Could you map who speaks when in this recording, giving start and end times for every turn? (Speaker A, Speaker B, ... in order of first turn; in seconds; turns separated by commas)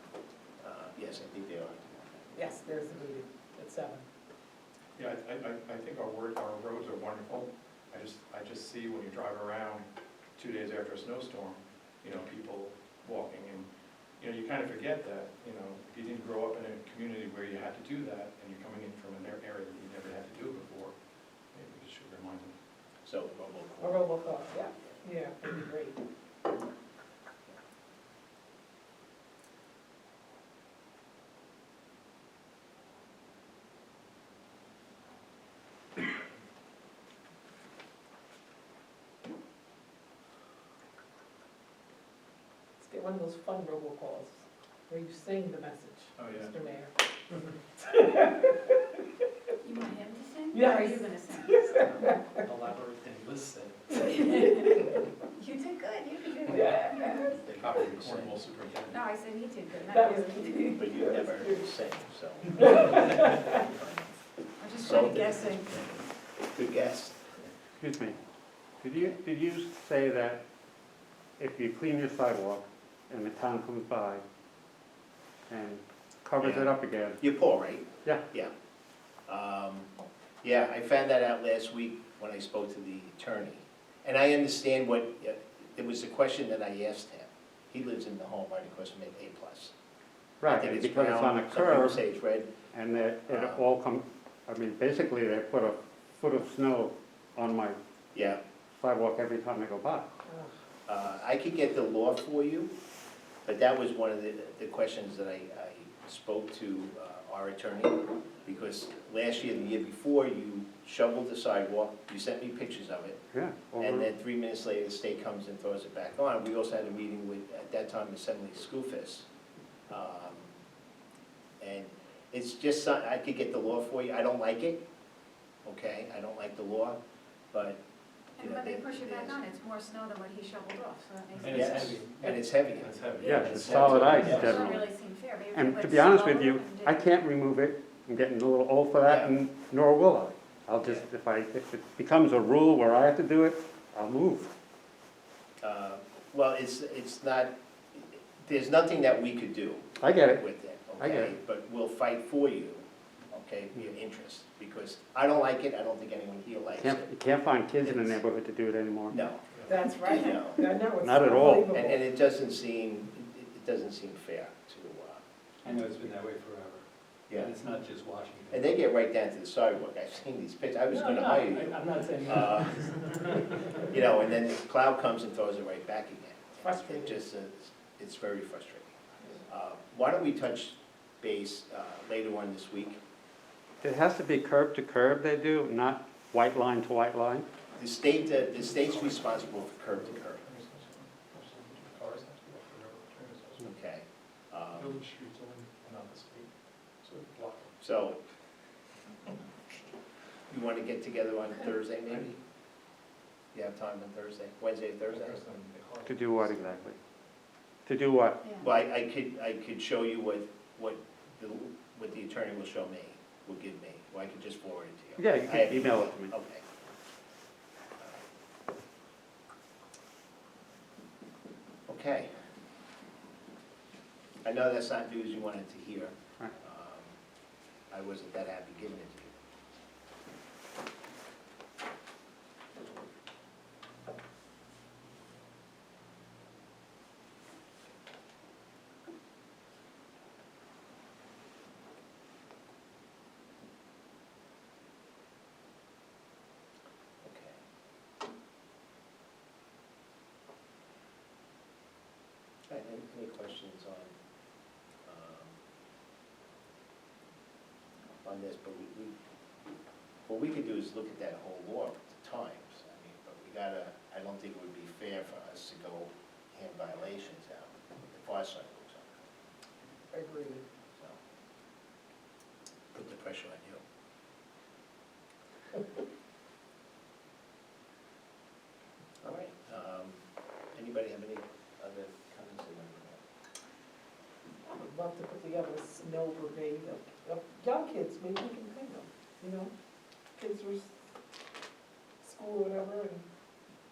Speaker A: 0.6-2.1, Speaker B: 2.3-4.0, Speaker C: 5.0-9.8, Speaker C: 10.3-21.0, Speaker C: 21.5-22.6, Speaker A: 23.0-25.0, Speaker B: 23.8-26.0, Speaker B: 42.8-46.9, Speaker C: 46.2-46.5, Speaker B: 47.8-48.8, Speaker D: 49.6-51.9, Speaker B: 50.5-52.4, Speaker E: 52.4-54.1, Speaker D: 54.0-54.8, Speaker B: 54.5-54.8, Speaker D: 55.3-57.3, Speaker B: 56.5-57.4, Speaker E: 57.3-58.4, Speaker C: 57.5-59.1, Speaker D: 58.9-60.7, Speaker B: 59.9-61.6, Speaker A: 60.7-64.1, Speaker B: 62.8-63.2, Speaker D: 64.6-65.7, Speaker A: 64.8-67.3, Speaker F: 67.8-68.2, Speaker F: 68.8-70.4, Speaker F: 71.4-74.2, Speaker F: 75.5-77.2, Speaker A: 76.4-78.5, Speaker A: 79.3-79.9, Speaker A: 80.4-89.7, Speaker F: 90.4-92.0, Speaker A: 90.4-92.5, Speaker F: 92.7-97.8, Speaker A: 93.3-93.6, Speaker A: 98.1-98.4, Speaker F: 98.7-100.1, Speaker A: 100.9-102.7, Speaker A: 103.4-113.2, Speaker F: 113.3-114.1, Speaker A: 113.8-119.3, Speaker A: 119.9-120.5, Speaker A: 121.6-124.8, Speaker A: 125.6-127.0, Speaker A: 127.5-127.8, Speaker D: 128.4-131.9, Speaker A: 128.4-129.4, Speaker E: 131.4-134.7, Speaker A: 131.5-134.8, Speaker D: 133.2-133.6, Speaker F: 133.2-134.8, Speaker D: 134.3-137.0, Speaker F: 135.5-144.5, Speaker A: 139.0-139.3, Speaker A: 140.8-141.1, Speaker A: 145.6-157.1, Speaker F: 150.0-150.4, Speaker F: 151.0-151.3, Speaker F: 156.8-159.2, Speaker A: 157.8-158.2, Speaker A: 159.1-160.6, Speaker B: 159.7-162.0, Speaker F: 161.0-161.7, Speaker A: 161.6-165.2, Speaker E: 165.6-168.7, Speaker A: 168.5-172.9, Speaker E: 170.9-173.6, Speaker A: 173.8-178.9, Speaker B: 176.6-177.1, Speaker A: 179.5-183.0, Speaker F: 183.8-187.5, Speaker A: 187.8-190.4, Speaker C: 188.3-193.7, Speaker A: 193.6-195.0, Speaker C: 194.7-196.5, Speaker C: 197.0-197.7, Speaker A: 197.8-198.2, Speaker A: 200.5-202.4, Speaker A: 203.5-205.4, Speaker C: 205.1-206.8, Speaker F: 206.1-207.0, Speaker F: 207.8-208.4, Speaker A: 208.6-216.6, Speaker F: 215.2-216.3, Speaker A: 221.9-222.3, Speaker A: 224.4-227.2, Speaker A: 227.9-229.3, Speaker A: 247.2-247.6, Speaker A: 252.7-254.1, Speaker A: 255.0-255.6, Speaker A: 258.2-259.1, Speaker A: 260.2-269.2, Speaker B: 270.1-270.6, Speaker A: 272.9-273.8, Speaker A: 279.2-283.2, Speaker B: 284.7-289.7, Speaker B: 290.4-290.9, Speaker B: 292.2-293.2